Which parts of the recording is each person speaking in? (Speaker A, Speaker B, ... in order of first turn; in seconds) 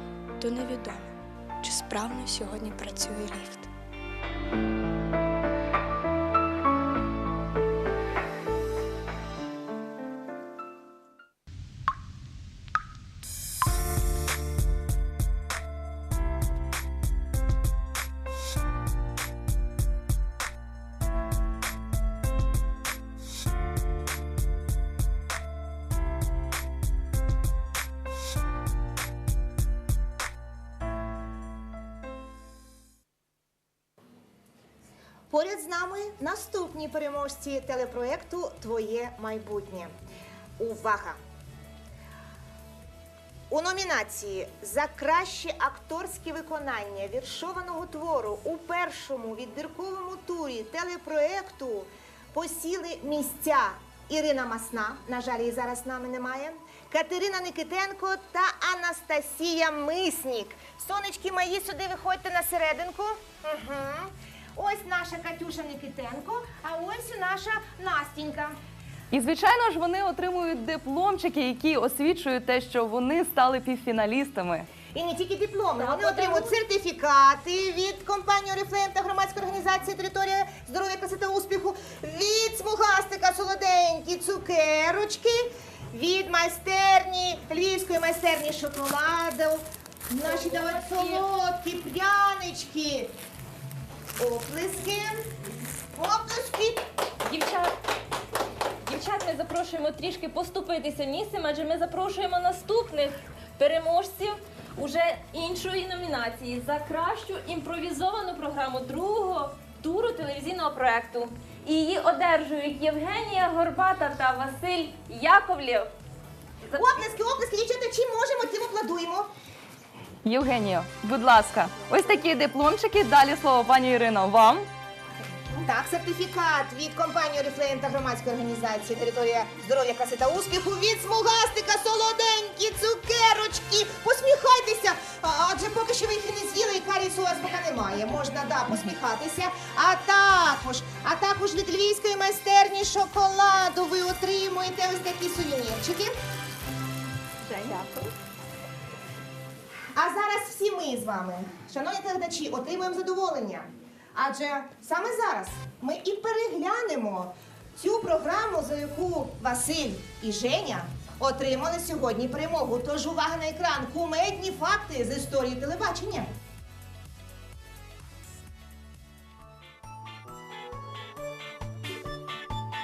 Speaker A: 0.4-3.7
Speaker B: 35.3-39.9, 40.6-41.2, 43.5-68.6, 74.9-93.1, 94.2-95.2, 96.0-96.8, 116.7-119.3, 125.6-146.1, 149.9-166.3
Speaker C: 69.1-74.7, 120.2-124.7
Speaker D: 75.8-76.5, 90.2-91.2, 97.2-97.7, 98.8-115.9, 147.6-147.9